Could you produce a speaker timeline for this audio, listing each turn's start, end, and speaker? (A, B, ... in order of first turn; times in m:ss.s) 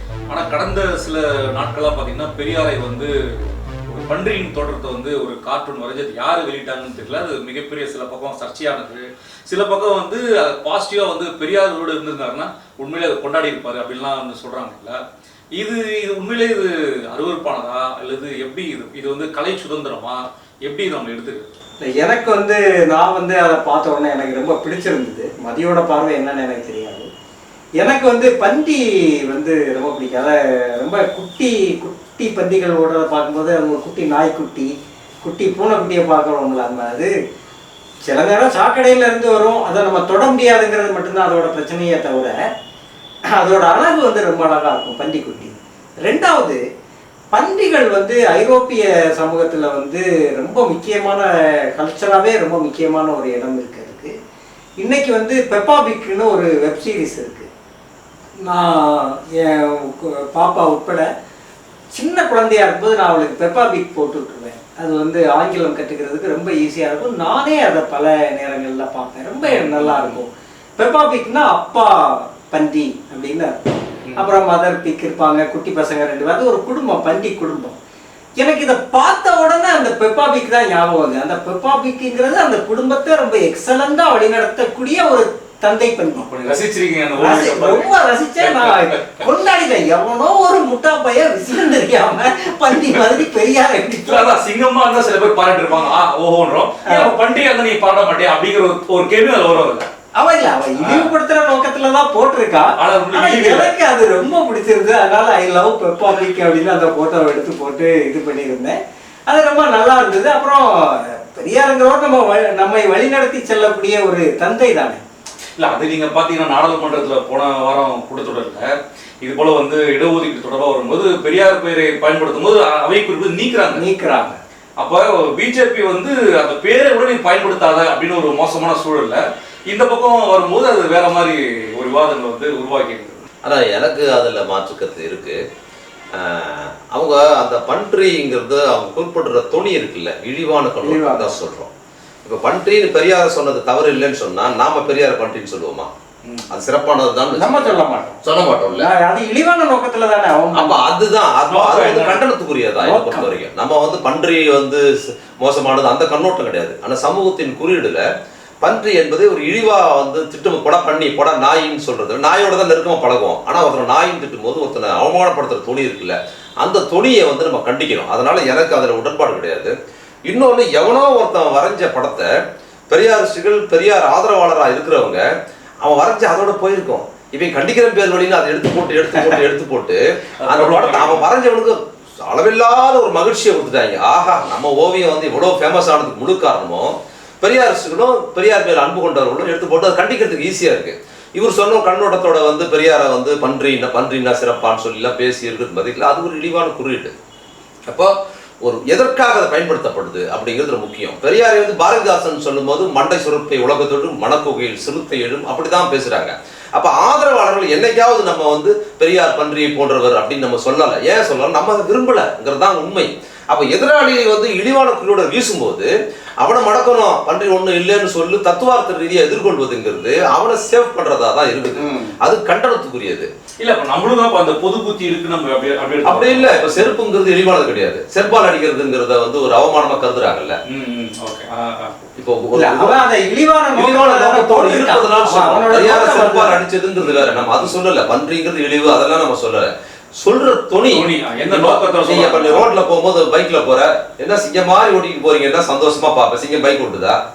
0:00.3-0:15.0 A
0:15.6-0:21.5 A
0:21.8-0:27.1 B
0:27.8-0:34.7 B
0:35.2-0:37.1 B
0:38.0-0:42.3 B
0:43.4-0:46.6 B
0:47.3-0:54.1 B
0:54.8-0:57.5 B
0:58.5-1:01.0 B
1:01.9-1:13.5 B
1:09.4-1:10.2 A
1:14.2-1:17.8 B
1:18.4-1:26.3 B
1:26.2-1:29.1 A
1:27.2-1:34.4 B
1:34.0-1:39.9 A
1:36.8-1:37.1 B
1:40.2-1:48.8 B
1:40.8-1:41.1 A
1:42.8-1:43.7 A
1:49.3-1:55.0 B
1:55.6-2:03.8 A
2:03.7-2:04.4 B
2:04.8-2:13.2 A
2:13.4-2:15.4 C
2:16.1-2:21.7 C
2:20.8-2:21.3 B
2:22.2-2:25.9 C
2:26.5-2:28.9 C
2:27.4-2:28.2 B
2:28.7-2:30.8 B
2:30.5-2:34.8 C
2:31.4-2:32.2 A
2:32.8-2:33.3 B
2:35.4-2:38.0 C
2:38.6-2:49.7 C
2:50.3-2:52.3 C
2:52.9-2:55.2 C
2:55.8-3:17.1 C
3:00.4-3:01.3 A
3:17.9-3:43.3 C
3:41.8-3:42.1 A
3:43.6-3:46.9 A
3:46.0-3:50.6 C
3:50.7-3:52.0 A
3:52.2-3:53.0 C
3:52.6-3:56.6 B
3:53.7-4:07.2 C
3:57.0-3:57.8 A
4:00.9-4:02.7 A